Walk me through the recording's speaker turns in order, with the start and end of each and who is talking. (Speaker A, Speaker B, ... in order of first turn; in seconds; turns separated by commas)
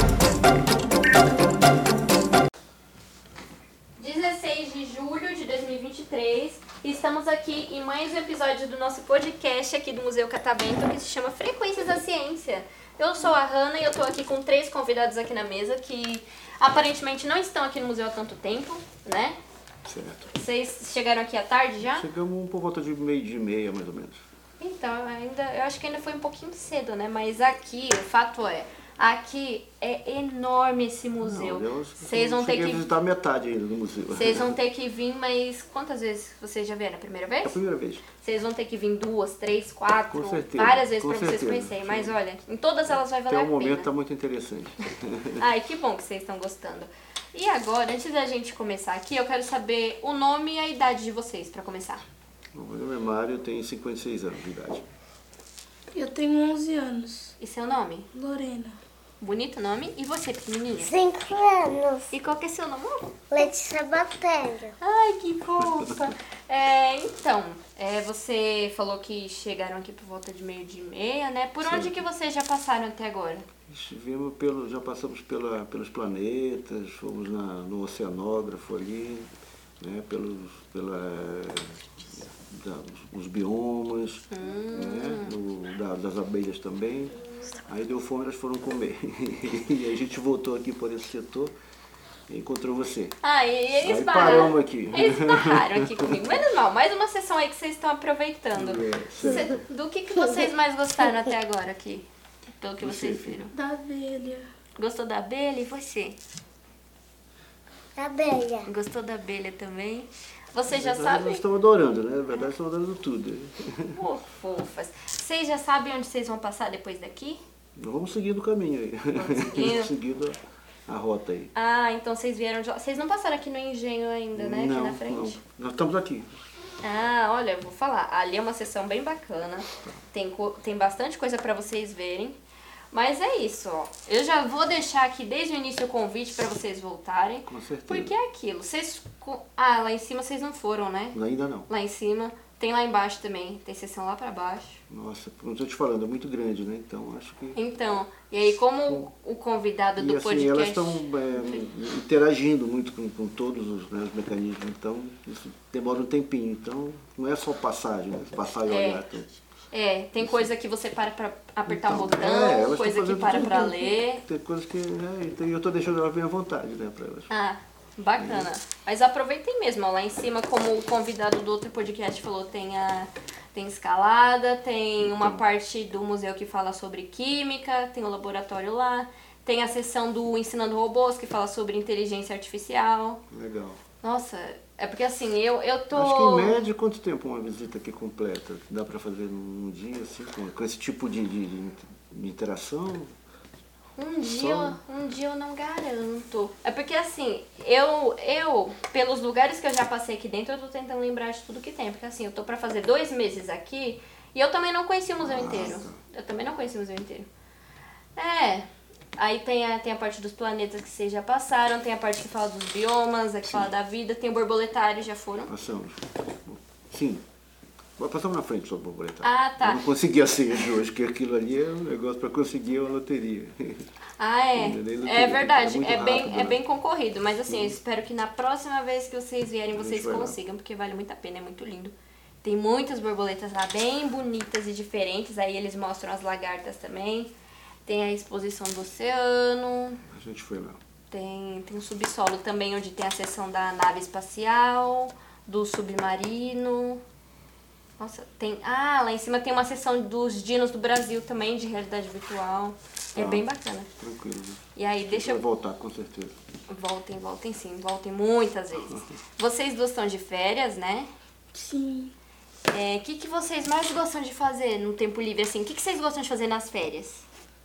Speaker A: 4.0-19.4, Speaker B: 19.9-20.3, Speaker A: 20.3-22.1, Speaker B: 21.8-24.2, Speaker A: 24.6-32.9, Speaker B: 31.2-34.6, Speaker A: 34.1-37.6, Speaker B: 37.4-38.1, Speaker A: 38.2-43.9, Speaker B: 40.1-42.2, Speaker B: 42.9-45.4, Speaker A: 45.4-52.1, Speaker B: 52.5-54.9, Speaker C: 55.9-57.4, Speaker A: 57.4-58.1, Speaker C: 58.1-58.8, Speaker A: 59.2-60.9, Speaker D: 60.8-62.1, Speaker A: 62.1-63.5, Speaker D: 63.3-64.8, Speaker A: 64.8-73.5, Speaker B: 71.6-72.1, Speaker B: 73.7-79.3, Speaker B: 79.8-91.5, Speaker A: 84.3-85.3, Speaker B: 92.3-93.2, Speaker A: 93.2-102.1, Speaker B: 93.8-96.2, Speaker B: 98.5-99.6, Speaker A: 102.6-103.5, Speaker B: 102.8-103.5, Speaker C: 103.5-104.5, Speaker A: 104.8-106.2, Speaker D: 108.0-108.7, Speaker A: 108.7-111.4, Speaker B: 110.7-114.0, Speaker A: 113.9-117.4, Speaker B: 117.8-121.5, Speaker A: 119.2-119.9, Speaker A: 121.5-125.4, Speaker B: 124.3-126.3, Speaker A: 126.8-132.4, Speaker A: 132.9-141.2, Speaker B: 137.5-138.1, Speaker B: 141.1-141.7, Speaker A: 141.7-144.8, Speaker B: 144.9-147.6, Speaker A: 147.6-151.7, Speaker B: 150.0-159.3, Speaker A: 158.7-159.0, Speaker A: 159.7-164.2, Speaker B: 160.2-160.5, Speaker B: 161.7-167.3, Speaker A: 167.3-183.2, Speaker B: 168.2-168.5, Speaker B: 175.0-175.4, Speaker B: 183.3-183.8, Speaker A: 184.0-186.7, Speaker B: 185.9-193.1, Speaker A: 194.0-207.3, Speaker B: 194.4-194.8, Speaker B: 205.2-206.0, Speaker A: 208.2-215.5, Speaker B: 215.5-217.2, Speaker B: 218.0-223.9, Speaker A: 219.2-219.8, Speaker A: 224.2-237.3, Speaker B: 224.6-226.6, Speaker B: 227.5-227.8, Speaker B: 229.7-230.4, Speaker A: 237.9-240.0, Speaker B: 240.1-240.8, Speaker A: 241.1-247.0, Speaker A: 248.0-253.9, Speaker B: 253.2-256.4, Speaker A: 254.8-255.4, Speaker A: 256.7-261.1, Speaker C: 261.5-262.1, Speaker A: 262.7-267.2